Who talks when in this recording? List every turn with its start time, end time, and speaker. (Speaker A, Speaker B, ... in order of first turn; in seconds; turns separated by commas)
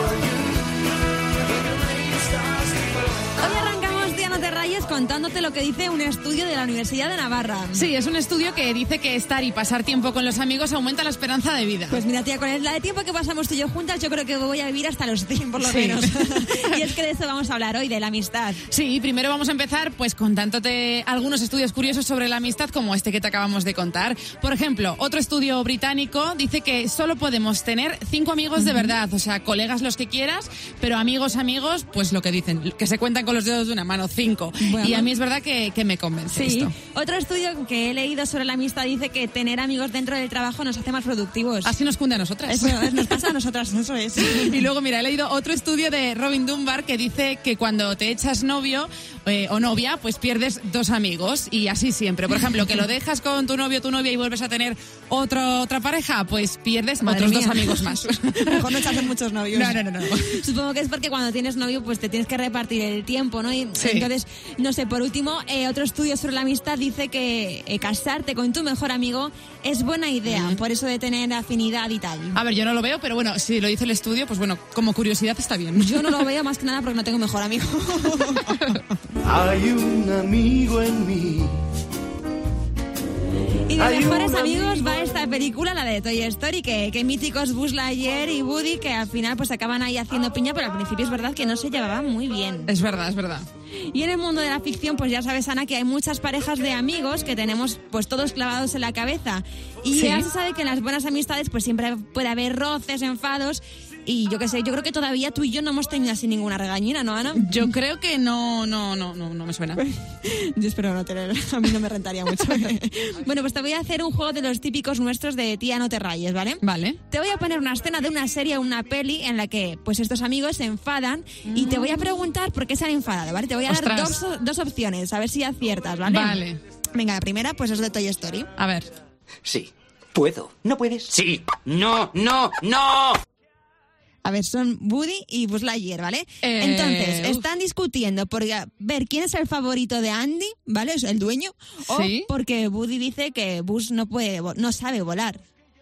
Speaker A: 3.4-7.9, Speaker B: 7.7-12.0, Speaker A: 11.9-18.6, Speaker B: 15.6-16.8, Speaker B: 18.7-36.7, Speaker A: 28.6-28.9, Speaker A: 34.6-35.1, Speaker A: 36.3-41.7, Speaker B: 41.6-43.3, Speaker A: 42.5-44.6, Speaker B: 44.2-60.4, Speaker A: 57.0-72.4, Speaker B: 63.8-64.1, Speaker B: 70.3-70.6, Speaker B: 72.3-76.3, Speaker A: 75.8-78.5, Speaker B: 78.5-78.8, Speaker C: 79.3-81.6, Speaker A: 83.7-92.7, Speaker B: 92.7-93.5, Speaker A: 93.8-107.5, Speaker B: 99.9-100.3, Speaker B: 107.4-109.8, Speaker A: 109.8-128.5, Speaker B: 116.6-117.0, Speaker B: 121.5-122.2, Speaker B: 123.7-124.2, Speaker B: 126.0-126.6, Speaker B: 128.6-128.9, Speaker D: 129.4-133.2, Speaker A: 134.2-145.4, Speaker B: 136.4-137.4, Speaker B: 141.8-142.3